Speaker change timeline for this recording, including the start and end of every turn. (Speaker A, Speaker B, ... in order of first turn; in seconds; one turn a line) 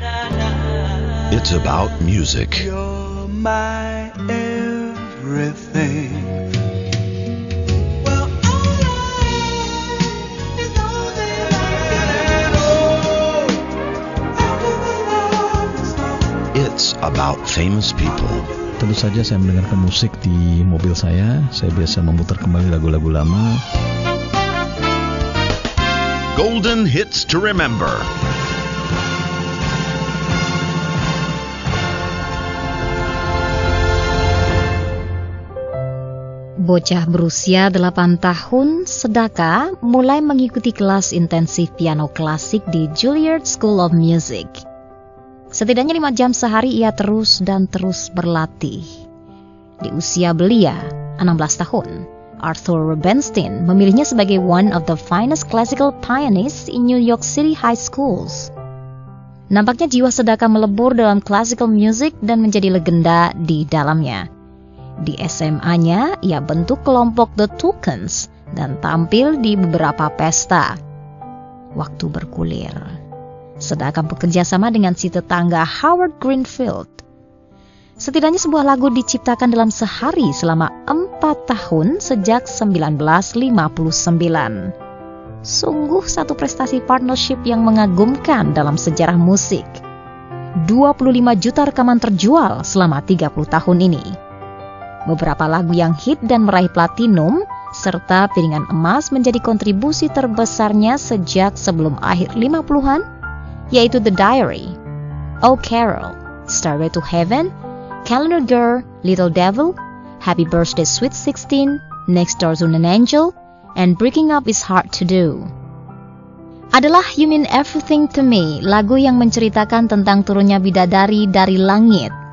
Speaker A: 1.2-2.7
Speaker B: 3.1-6.4
Speaker A: 16.5-18.6
Speaker C: 18.8-23.6
Speaker A: 26.3-28.1
Speaker D: 36.6-44.6
Speaker D: 45.5-49.0
Speaker D: 49.8-58.5
Speaker D: 59.5-64.2
Speaker D: 65.0-70.8
Speaker D: 71.8-72.9
Speaker D: 73.6-77.0
Speaker D: 78.0-84.7
Speaker D: 85.4-89.8
Speaker D: 90.7-94.1
Speaker D: 95.1-103.0
Speaker D: 103.7-104.8
Speaker D: 105.4-107.5
Speaker D: 108.0-115.5
Speaker D: 116.8-122.1